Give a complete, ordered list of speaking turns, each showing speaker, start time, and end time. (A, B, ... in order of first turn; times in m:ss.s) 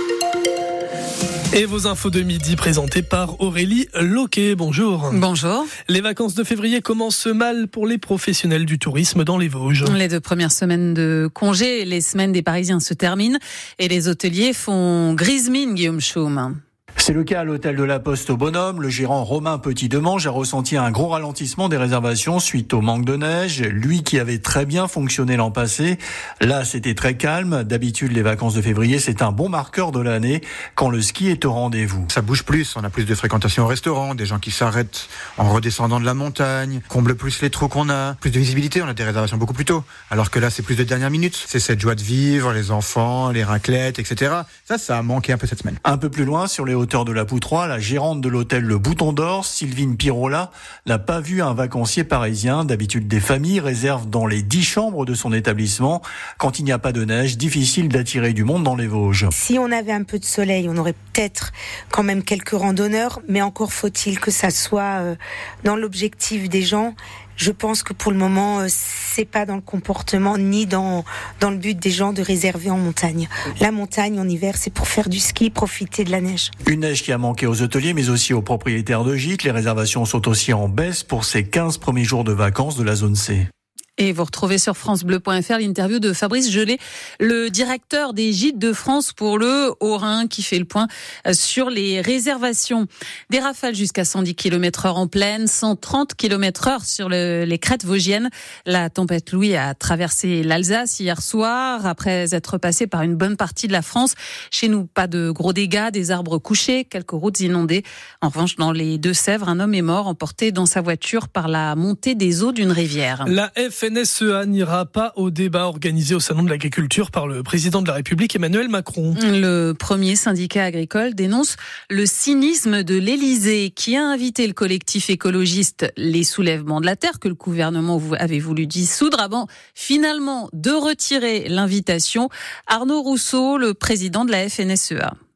0:01.5-0:05.2 A
0:05.1-0:05.7 B
0:05.9-0:10.0 A
0:09.8-0:16.6 B
0:17.0-0:32.1 C
0:32.1-0:45.8 D
0:45.8-0:59.3 C
0:59.3-1:16.5 E
1:16.7-1:23.5 C
1:24.0-1:53.3 B
1:53.2-1:59.2 A
1:59.2-2:15.1 B